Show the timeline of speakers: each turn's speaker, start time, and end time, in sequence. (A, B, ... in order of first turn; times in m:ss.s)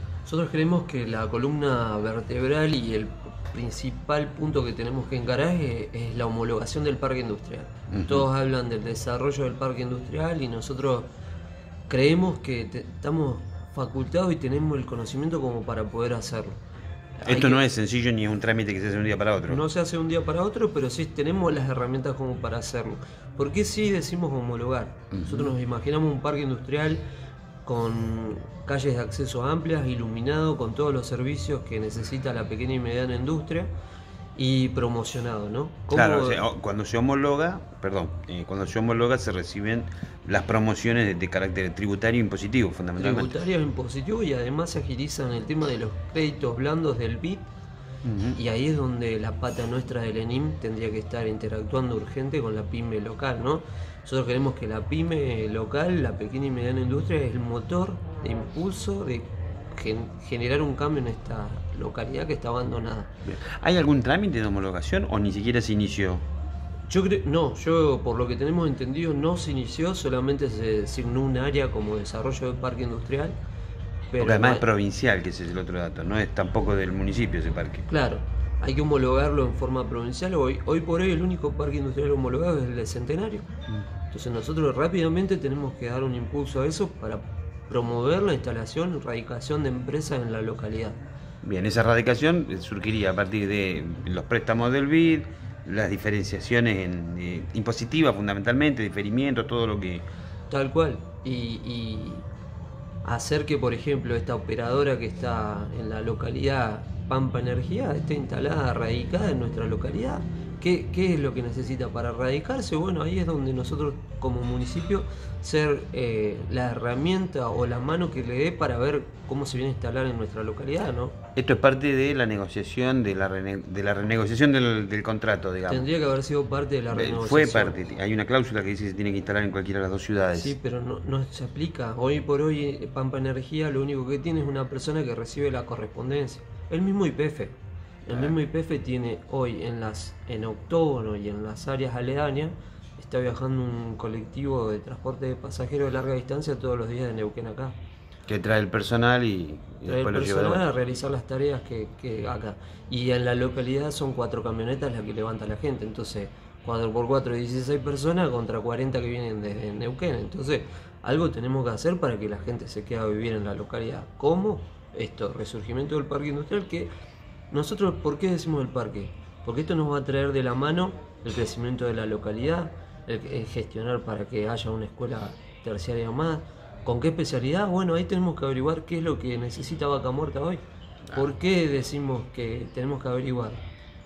0:00.2-0:11.1 A
0:07.9-0:08.2 B
0:11.9-0:16.6 A
0:17.2-0:17.6 A
0:17.2-0:19.6 B
0:19.5-0:27.0 A
0:25.1-0:25.5 B
0:27.6-0:33.7 A
0:34.4-0:36.4 A
0:35.9-0:43.3 B
0:43.0-0:47.5 A
0:48.0-0:48.4 B
0:48.3-1:03.1 A
1:03.2-1:06.2 B
1:06.9-1:13.4 A
1:14.1-1:14.6 A
1:14.2-1:17.8 B
1:17.9-1:23.5 A
1:24.1-1:31.0 A
1:31.4-1:40.0 B
1:40.5-1:42.3 A
1:43.0-2:01.2 A
2:01.4-2:05.9 B
2:05.7-2:07.7 A
2:06.9-2:10.6 B
2:10.3-2:27.8 A
2:28.3-2:30.6 B
2:29.8-2:46.9 A
2:47.5-3:00.6 A
3:01.1-3:03.6 A